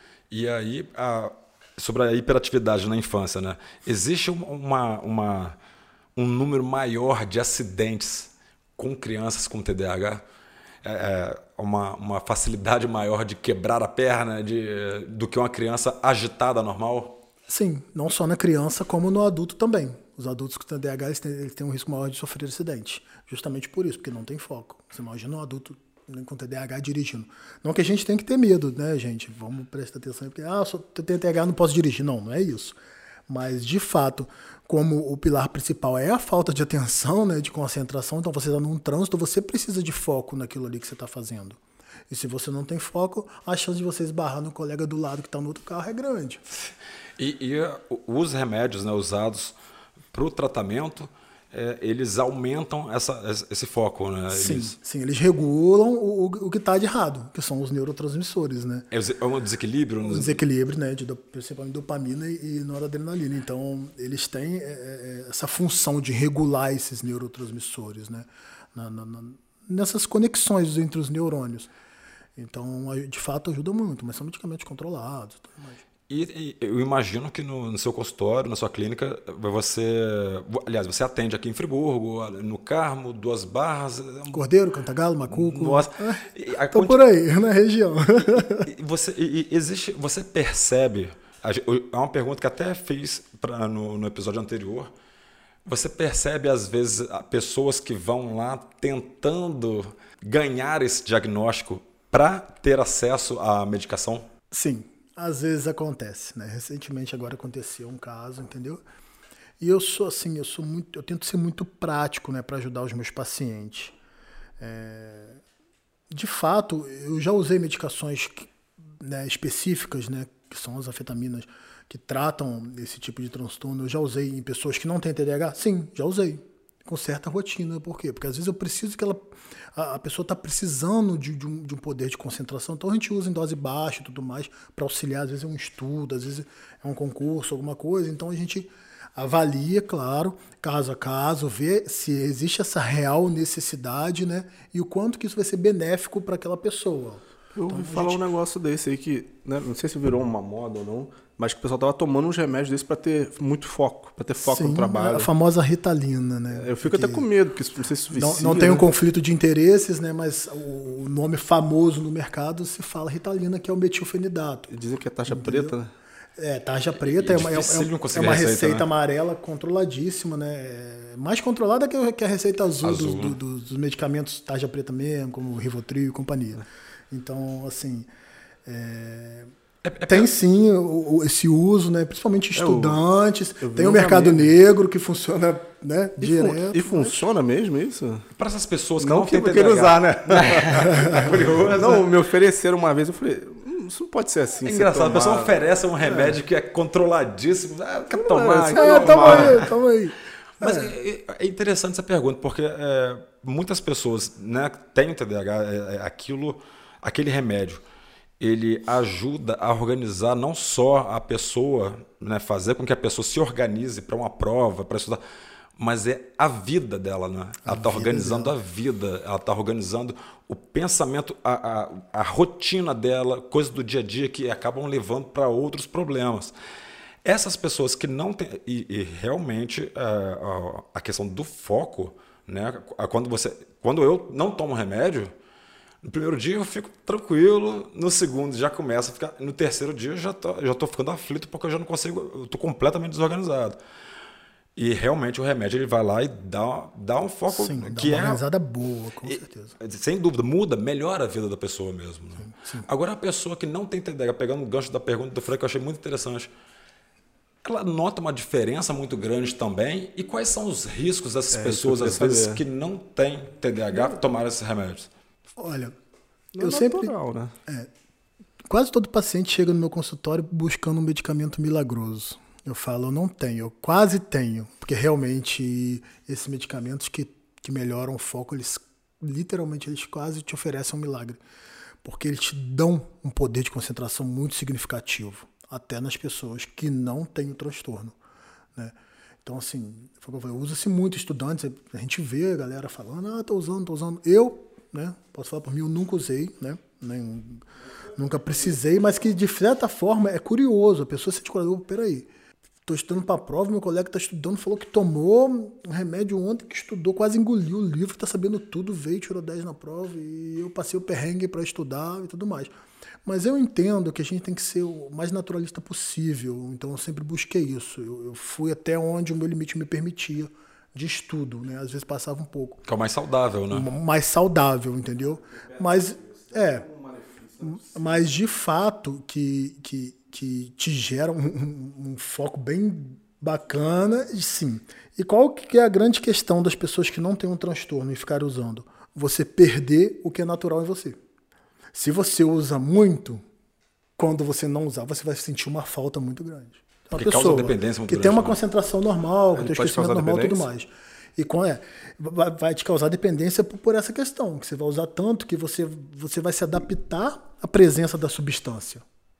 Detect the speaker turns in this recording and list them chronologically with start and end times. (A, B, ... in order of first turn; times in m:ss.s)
0:00.3-0:05.6 A
0:06.2-0:10.2 A
0:10.8-0:17.2 A
0:17.5-0:32.8 B
0:33.3-0:46.4 B
0:46.7-0:49.6 A
0:50.1-0:54.7 A
0:54.3-0:58.9 B
0:58.9-1:00.4 A
1:00.0-1:11.7 B
1:12.4-1:15.8 B
1:16.1-1:24.4 A
1:24.3-1:28.7 B
1:25.3-1:27.0 A
1:28.3-1:34.9 A
1:35.6-1:44.3 A
1:44.5-1:48.8 B
1:49.6-1:54.0 B
1:54.6-1:55.4 B
1:56.1-2:28.2 B
2:27.6-2:35.3 C
2:34.4-2:37.3 B
2:36.5-2:38.9 C
2:38.1-2:44.7 B
2:44.7-2:45.9 C
2:45.3-2:45.8 B
2:46.4-2:58.1 B
2:47.0-2:48.9 A
2:52.8-2:53.4 A
2:58.6-2:59.5 B
2:59.8-3:00.3 A
3:00.0-3:07.2 B
3:02.6-3:03.0 C
3:03.6-3:04.5 C
3:06.2-3:08.3 C
3:08.4-3:12.1 A
3:09.0-3:15.6 C
3:14.6-3:19.7 A
3:18.1-3:19.7 C
3:18.7-3:20.9 B
3:20.6-3:27.8 A
3:28.4-3:35.2 A
3:35.8-3:46.5 A
3:37.6-3:38.5 B
3:47.2-3:55.3 A
3:56.0-4:03.8 A
4:04.8-4:08.4 A
4:07.5-4:09.8 B
4:09.3-4:16.5 A
4:12.4-4:12.9 B
4:17.6-4:25.1 A
4:21.5-4:22.6 C
4:25.6-4:26.0 B
4:26.6-4:27.5 C
4:26.6-4:27.1 B
4:28.7-4:41.4 B
4:42.0-4:48.2 B
4:48.8-5:02.3 B
5:02.9-5:12.7 B
5:13.2-5:22.8 B
5:22.8-5:23.9 A
5:23.7-5:26.9 B
5:25.6-5:28.2 C
5:27.6-5:41.2 B
5:41.9-5:43.4 B
5:44.2-5:59.0 B
5:47.1-5:48.6 A
5:49.5-5:50.7 C